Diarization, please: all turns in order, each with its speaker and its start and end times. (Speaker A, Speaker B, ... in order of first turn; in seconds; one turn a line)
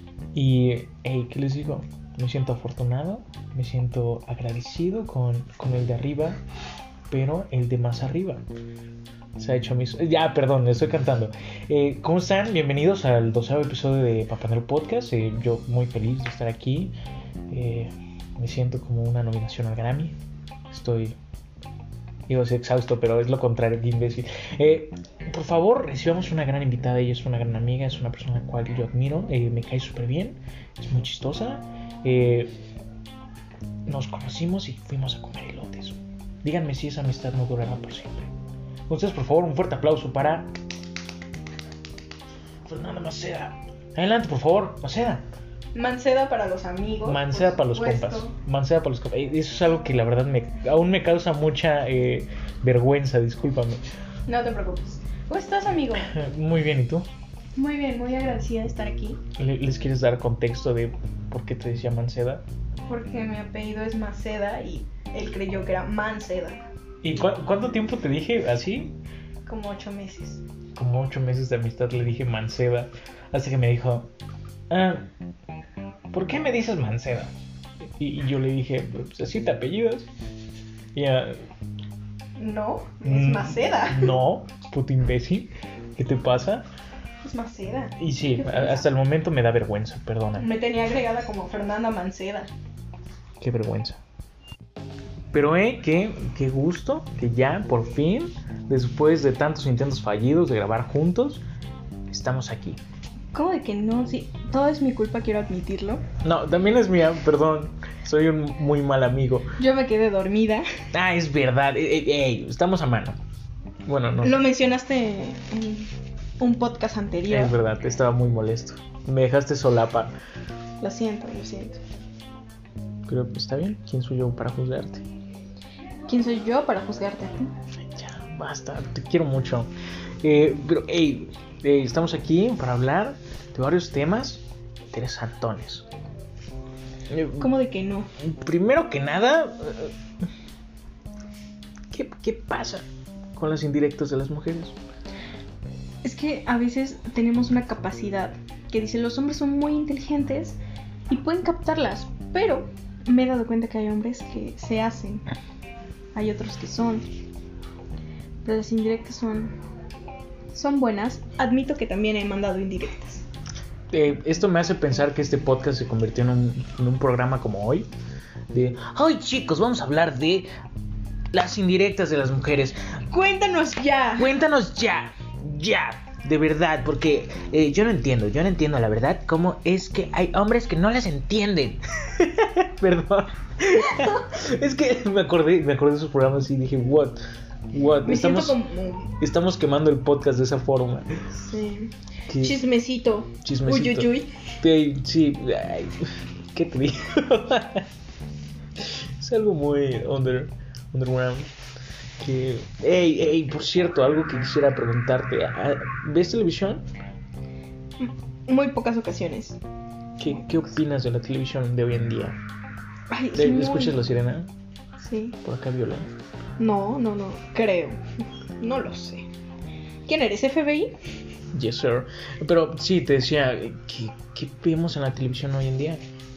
Speaker A: 0.3-6.4
Speaker A: 7.1-8.5
Speaker A: 9.3-16.9
Speaker A: 17.5-20.1
Speaker A: 20.7-21.2
Speaker A: 22.3-32.5
Speaker A: 33.9-38.3
Speaker A: 38.9-40.5
Speaker A: 42.6-45.2
Speaker B: 45.7-48.3
Speaker A: 47.0-53.8
Speaker B: 54.3-56.1
Speaker A: 56.0-57.1
Speaker B: 57.5-59.2
Speaker A: 59.4-62.4
Speaker B: 62.9-66.6
Speaker A: 67.0-68.9
Speaker B: 69.5-70.4
Speaker A: 70.7-74.1
Speaker A: 74.7-75.1
Speaker A: 76.1-77.3
Speaker A: 78.0-80.1
Speaker A: 80.9-81.4
Speaker B: 82.4-84.2
Speaker A: 83.0-86.7
Speaker B: 87.2-88.8
Speaker A: 88.0-90.5
Speaker B: 90.4-92.5
Speaker A: 93.4-94.0
Speaker A: 95.3-101.4
Speaker A: 102.1-102.8
Speaker B: 103.3-106.0
Speaker A: 106.2-109.5
Speaker B: 109.6-110.7
Speaker A: 110.9-113.2
Speaker A: 113.8-114.4
Speaker B: 114.2-117.5
Speaker A: 117.3-120.1
Speaker B: 120.8-121.8
Speaker A: 123.1-125.0
Speaker B: 126.1-127.5
Speaker A: 127.9-129.7
Speaker A: 130.2-135.9
Speaker A: 137.1-137.5
Speaker B: 137.4-138.1
Speaker A: 138.2-139.9
Speaker A: 141.9-144.8
Speaker B: 146.0-150.6
Speaker B: 151.1-155.2
Speaker B: 156.1-157.0
Speaker B: 158.4-159.5
Speaker B: 160.5-163.2
Speaker A: 163.9-167.9
Speaker A: 168.5-170.5
Speaker A: 171.3-172.8
Speaker B: 173.1-174.3
Speaker A: 174.2-187.2
Speaker A: 187.7-188.6
Speaker B: 188.0-189.1
Speaker A: 189.2-191.1
Speaker B: 191.3-194.3
Speaker A: 192.3-192.6
Speaker A: 193.4-197.9
Speaker A: 198.8-201.5
Speaker A: 202.2-206.8
Speaker B: 208.0-209.6
Speaker A: 210.2-212.4
Speaker B: 210.3-210.6
Speaker B: 213.1-214.0
Speaker A: 213.3-214.5
Speaker B: 215.0-215.4
Speaker A: 215.4-216.1
Speaker B: 216.6-218.0
Speaker B: 218.6-219.3
Speaker B: 220.1-220.9
Speaker A: 221.5-226.0